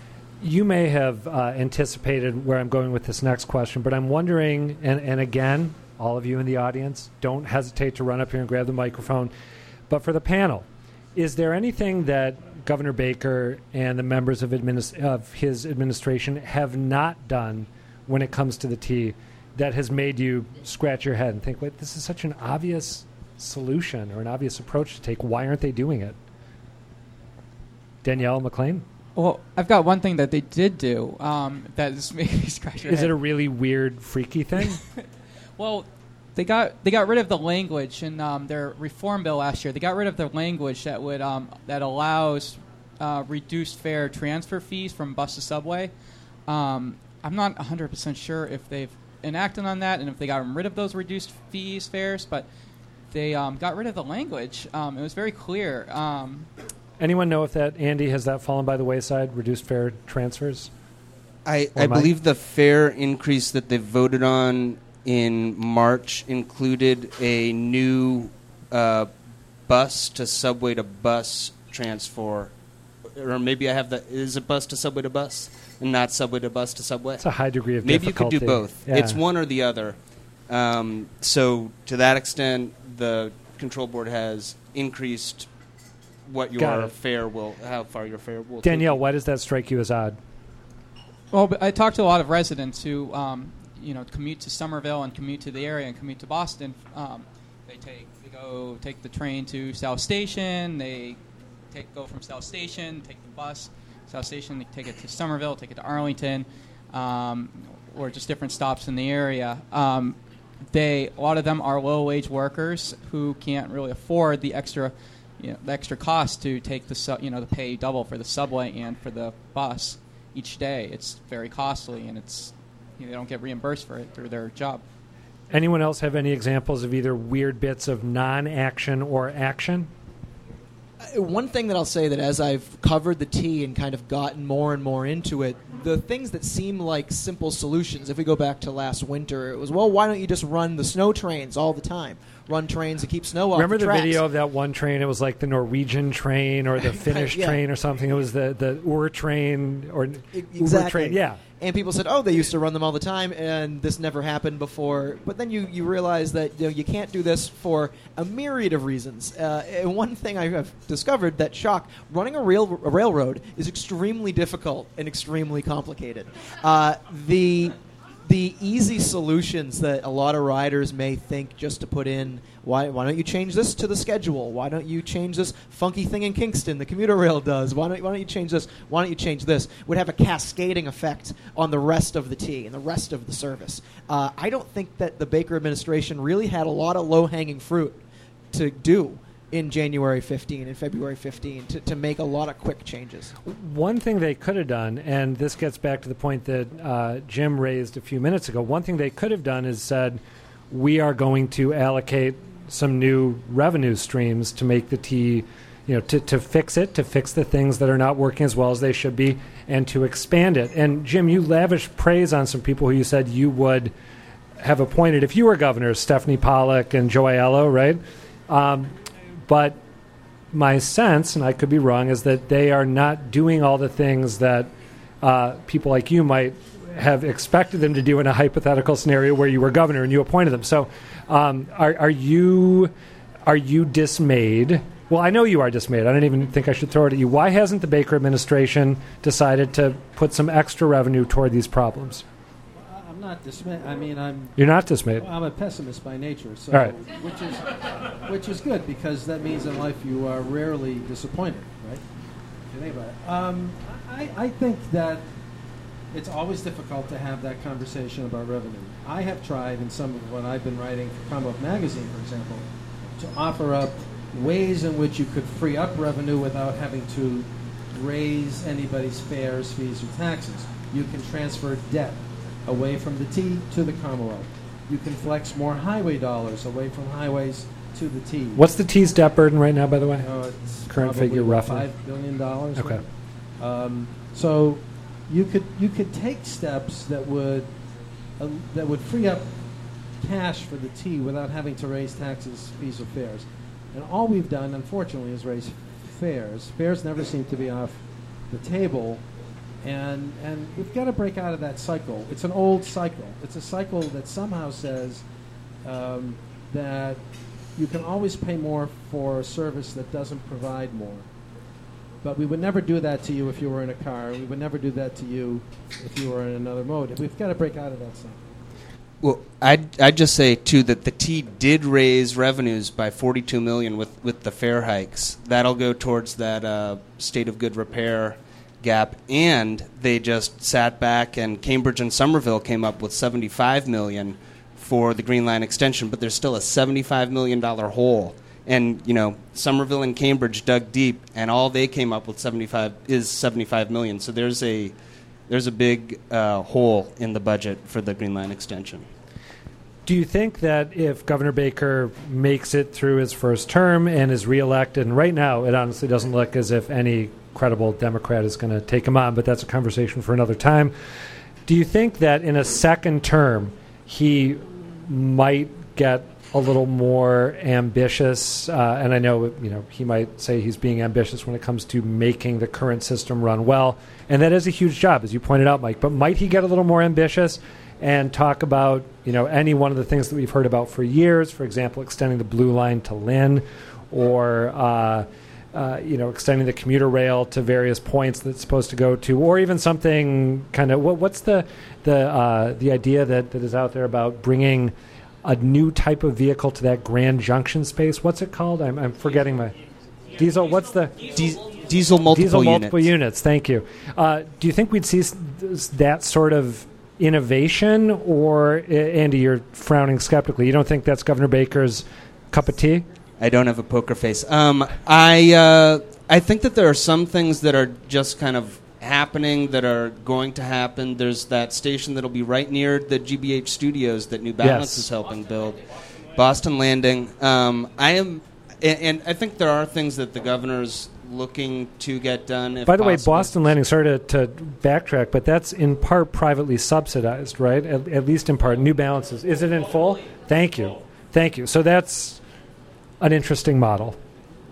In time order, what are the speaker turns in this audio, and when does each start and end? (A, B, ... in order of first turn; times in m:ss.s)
0:00.4-0:09.3 A
0:09.9-0:26.2 A
0:28.0-0:28.8 A
0:29.1-0:33.2 B
0:32.9-0:34.8 A
0:35.6-0:45.9 B
0:46.5-0:52.5 B
0:53.1-0:56.5 B
0:57.0-1:00.7 A
1:01.4-1:09.1 C
1:01.8-1:02.1 A
1:09.7-1:12.5 C
1:13.1-1:17.2 C
1:17.2-1:19.2 A
1:17.8-1:19.9 C
1:20.5-1:25.5 C
1:26.3-1:29.0 C
1:26.6-1:26.9 A
1:28.6-1:30.2 A
1:31.3-1:41.2 B
1:41.7-1:50.2 B
1:50.7-2:04.8 B
2:05.5-2:09.9 A
2:11.0-2:24.2 D
2:23.5-2:31.4 A
2:26.8-2:27.6 D
2:30.3-3:13.3 D
3:13.5-3:33.9 A
3:34.6-3:38.9 A
3:39.5-3:39.8 A
3:40.5-3:44.7 A
3:45.2-3:52.9 A
3:53.4-4:02.2 A
4:02.8-4:04.5 E
4:04.6-4:05.2 A
4:05.2-4:12.0 E
4:12.7-4:15.2 E
4:16.1-4:22.6 E
4:23.2-4:38.6 E
4:38.6-4:40.3 A
4:40.2-4:43.0 E
4:40.9-4:41.9 A
4:43.6-4:47.7 E
4:48.4-4:49.5 E
4:50.2-4:59.2 E
4:59.8-5:05.2 E
5:05.8-5:07.2 E
5:07.8-5:11.3 E
5:12.2-5:18.6 E
5:19.2-5:44.9 C
5:45.5-5:49.0 C
5:50.0-6:00.9 A
6:01.7-6:34.9 A
6:35.4-6:39.7 A
6:40.4-6:41.2 A
6:41.2-6:43.1 C
6:42.3-6:53.0 A
6:53.4-7:05.8 C
7:04.6-7:05.1 A
7:06.3-7:13.7 C
7:12.9-7:22.4 A
7:23.2-7:24.2 A